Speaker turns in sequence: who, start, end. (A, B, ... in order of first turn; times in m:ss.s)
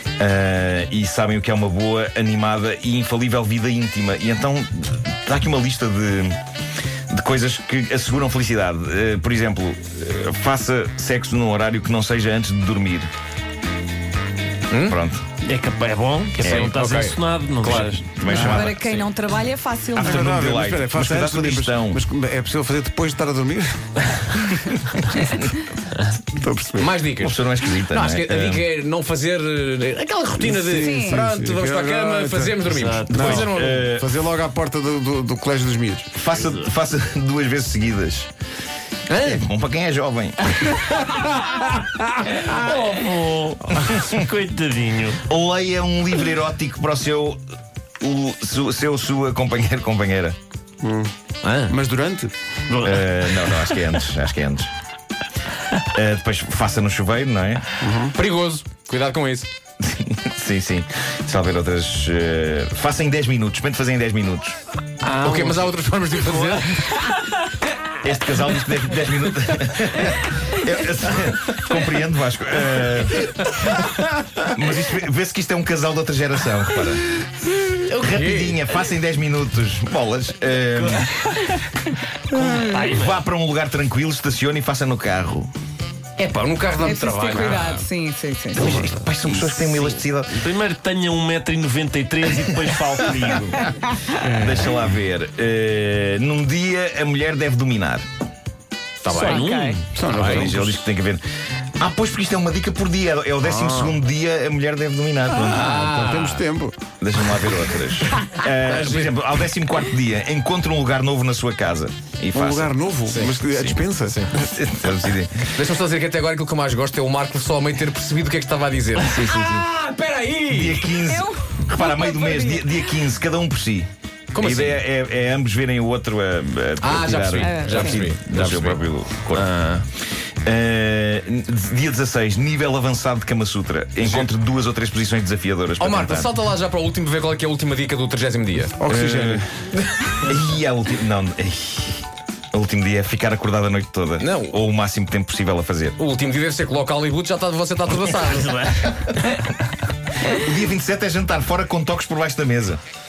0:00.2-0:06.4 A
0:07.1-0:13.1 A
0:14.7-0:15.0 B
0:14.9-0:15.2 A
0:15.4-0:19.0 C
0:16.4-0:16.7 A
0:16.4-0:18.0 B
0:17.7-0:18.8 A
0:18.2-0:18.7 D
0:18.4-0:20.2 E
0:19.9-0:22.0 A
0:20.0-0:25.5 D
0:26.3-0:26.9 D
0:26.8-0:33.8 B
0:27.2-0:28.6 A
0:30.4-0:36.1 D
0:30.8-0:31.2 E
0:32.7-0:33.5 C
0:33.1-0:34.1 A
0:36.1-0:38.3 A
0:39.1-0:39.4 B
0:39.2-0:40.4 A
0:42.3-0:45.2 C
0:43.8-0:44.2 A
0:45.3-0:47.4 A
0:48.0-0:50.4 A
0:50.8-0:51.1 D
0:51.4-0:51.8 B
0:51.7-0:52.3 D
0:52.7-0:54.0 C
0:52.8-0:54.7 A
0:55.9-0:57.6 A
0:57.8-0:58.1 D
0:58.1-0:59.5 B
0:59.8-1:04.6 A
1:05.0-1:07.2 B
1:05.1-1:05.7 C
1:06.3-1:06.7 C
1:08.0-1:13.9 A
1:14.4-1:17.2 A
1:17.9-1:18.7 B
1:18.0-1:21.1 A
1:20.8-1:21.6 C
1:22.3-1:23.2 C
1:22.3-1:25.5 A
1:26.2-1:27.8 B
1:26.8-1:28.7 E
1:28.6-1:30.4 A
1:28.6-1:30.0 B
1:30.3-1:33.7 C
1:34.2-1:34.6 D
1:34.2-1:38.0 A
1:39.0-1:39.5 B
1:39.1-1:39.8 E
1:39.1-1:39.8 C
1:39.9-1:40.8 D
1:40.1-1:41.2 A
1:41.8-1:45.8 A
1:45.4-1:46.4 B
1:45.6-1:46.8 D
1:47.0-1:52.8 A
1:48.7-1:49.1 B
1:52.3-1:54.3 D
1:53.1-1:53.4 B
1:53.5-1:53.8 A
1:54.0-1:54.3 B
1:54.4-1:55.5 A
1:55.5-2:00.9 B
1:59.2-1:59.6 A
2:00.5-2:09.5 A
2:01.1-2:02.7 E
2:04.3-2:04.8 B
2:06.8-2:08.8 B
2:07.4-2:08.0 E
2:09.3-2:09.8 C
2:10.4-2:16.3 A
2:14.0-2:14.3 B
2:15.8-2:18.9 B
2:18.8-2:19.5 D
2:18.9-2:19.5 A
2:20.0-2:26.0 A
2:24.2-2:24.6 B
2:26.0-2:29.0 B
2:30.3-2:32.8 A